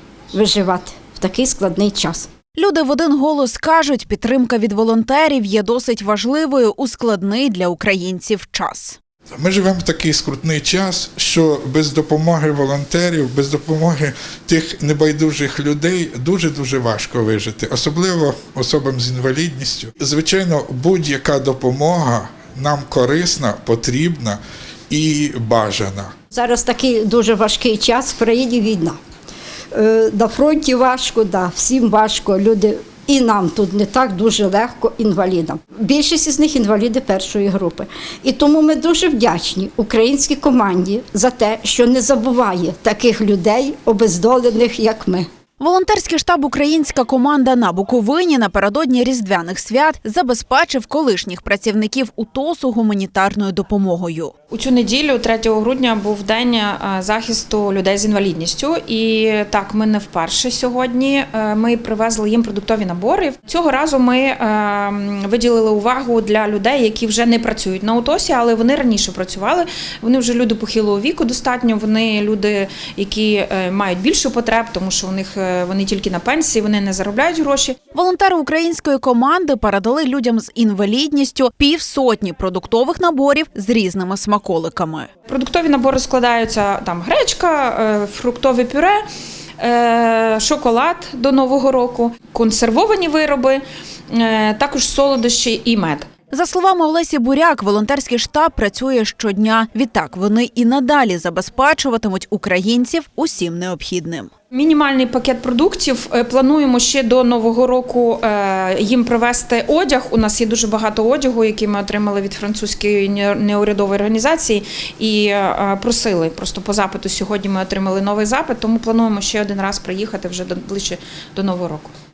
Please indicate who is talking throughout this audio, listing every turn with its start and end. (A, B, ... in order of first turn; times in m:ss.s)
0:00.3-0:02.3 A
0:02.6-0:09.0 B
0:09.4-0:26.1 C
0:26.3-0:29.0 A
0:29.7-0:45.3 A
0:45.6-0:54.3 B
0:54.5-1:17.8 D
1:17.9-1:25.1 B
1:25.3-1:29.0 D
1:29.6-1:36.1 D
1:36.3-1:44.3 B
1:44.5-2:01.9 D